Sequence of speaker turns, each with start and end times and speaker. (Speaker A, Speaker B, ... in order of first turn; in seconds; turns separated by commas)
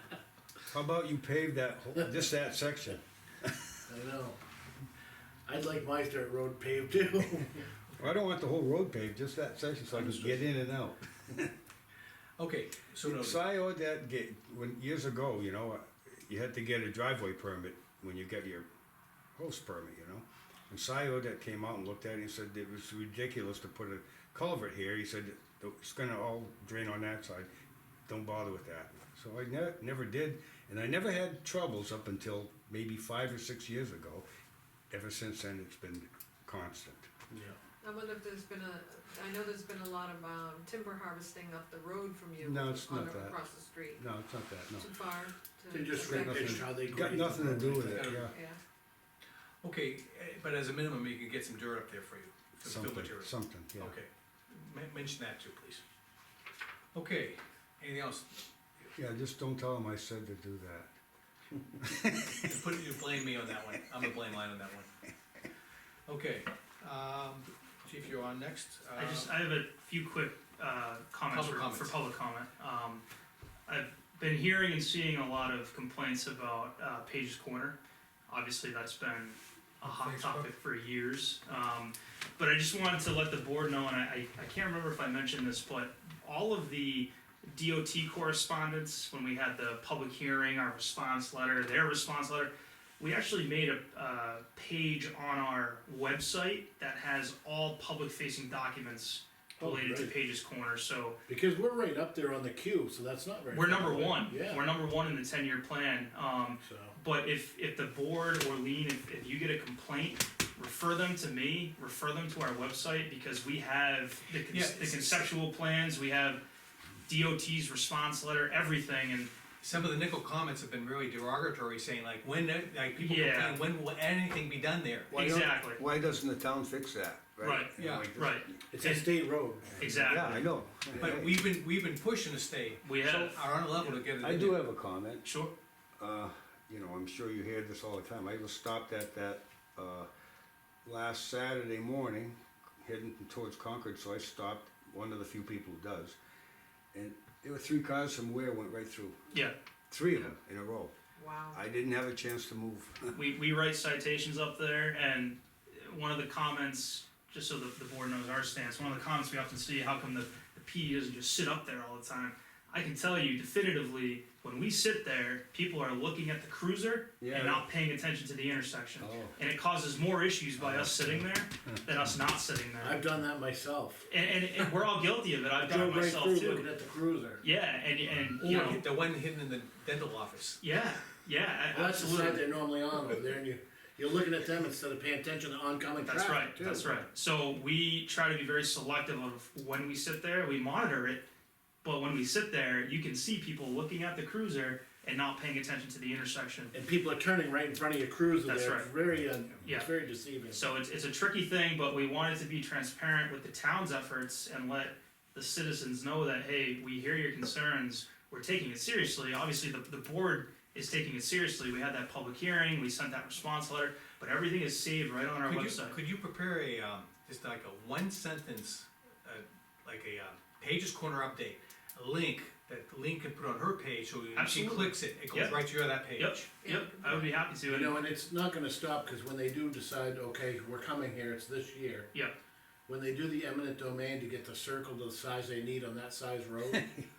Speaker A: 0.7-3.7, Speaker B: 3.9-4.4, Speaker B: 5.5-7.6, Speaker A: 8.0-11.5, Speaker C: 12.4-13.4, Speaker A: 13.0-18.7, Speaker A: 19.4-27.5, Speaker A: 28.1-34.2, Speaker A: 34.9-37.1, Speaker B: 37.3-37.6, Speaker D: 37.8-44.0, Speaker A: 42.4-43.4, Speaker A: 44.0-44.9, Speaker D: 44.7-47.5, Speaker B: 45.7-48.2, Speaker A: 46.0-48.3, Speaker C: 47.4-48.3, Speaker D: 48.2-48.6, Speaker C: 49.6-55.8, Speaker A: 52.6-54.0, Speaker C: 56.9-58.4, Speaker A: 59.0-60.9, Speaker A: 61.8-62.6, Speaker C: 62.4-64.9, Speaker C: 66.1-69.3, Speaker E: 69.0-73.0, Speaker C: 71.3-72.0, Speaker E: 73.7-77.8, Speaker E: 78.3-101.2, Speaker C: 79.8-80.5, Speaker B: 99.6-100.1, Speaker B: 101.3-104.6, Speaker E: 103.5-116.4, Speaker B: 106.6-106.9, Speaker C: 114.5-115.3, Speaker E: 117.0-119.3, Speaker C: 119.6-125.2, Speaker E: 123.0-123.6, Speaker A: 125.1-128.6, Speaker E: 125.1-125.8, Speaker E: 127.4-129.0, Speaker C: 127.8-128.1, Speaker B: 128.7-129.9, Speaker A: 129.7-131.4, Speaker E: 129.8-130.4, Speaker C: 129.9-134.6, Speaker E: 132.8-133.9, Speaker A: 134.2-135.2, Speaker E: 135.2-135.5, Speaker A: 136.0-140.1, Speaker A: 140.8-146.2, Speaker A: 146.9-149.2, Speaker A: 149.9-150.9, Speaker D: 151.2-151.6, Speaker A: 151.5-153.1, Speaker E: 153.1-173.0, Speaker A: 167.2-167.6, Speaker A: 169.0-169.3, Speaker A: 170.6-171.2, Speaker B: 172.8-174.0, Speaker E: 174.1-176.7, Speaker B: 175.6-177.4, Speaker E: 177.4-178.8, Speaker C: 178.4-180.6, Speaker E: 180.6-182.4, Speaker B: 181.7-187.1, Speaker E: 186.1-191.3, Speaker E: 191.8-196.7, Speaker B: 196.7-200.6, Speaker E: 198.4-198.9, Speaker E: 199.6-199.9, Speaker E: 200.5-216.0, Speaker C: 215.4-226.5, Speaker E: 224.3-228.0, Speaker D: 226.6-227.5, Speaker B: 227.7-232.1, Speaker B: 232.9-236.8, Speaker A: 236.7-237.0